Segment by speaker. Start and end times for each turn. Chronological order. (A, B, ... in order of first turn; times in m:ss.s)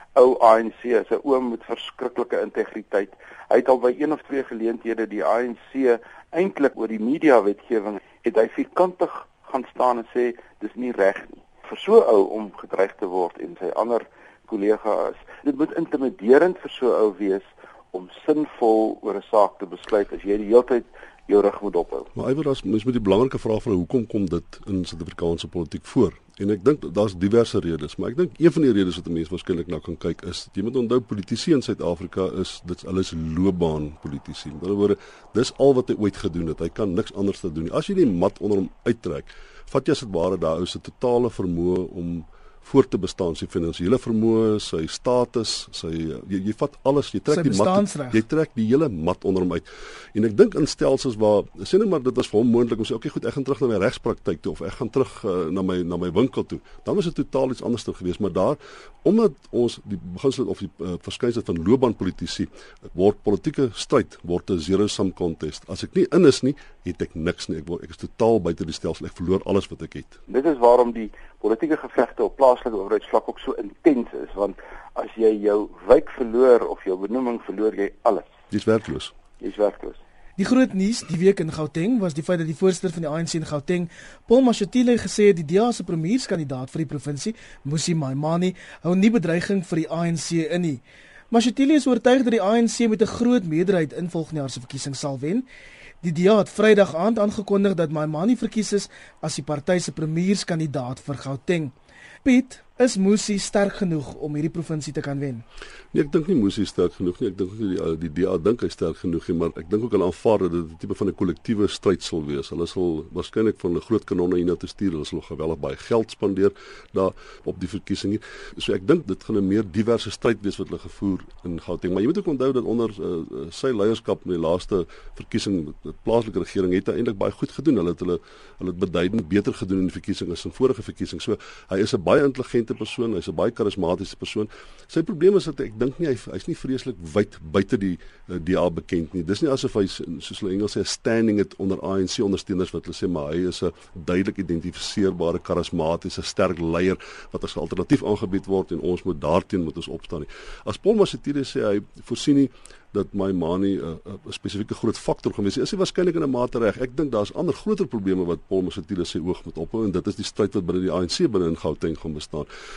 0:00.2-0:22.1 A
0:22.2-1:10.2 B
0:47.3-0:48.2 C
1:10.3-1:18.3 A
1:18.5-1:19.1 B
1:19.4-1:20.0 A
1:20.4-1:35.5 C
1:36.0-1:41.7 C
1:42.2-1:45.4 C
1:45.9-2:42.5 B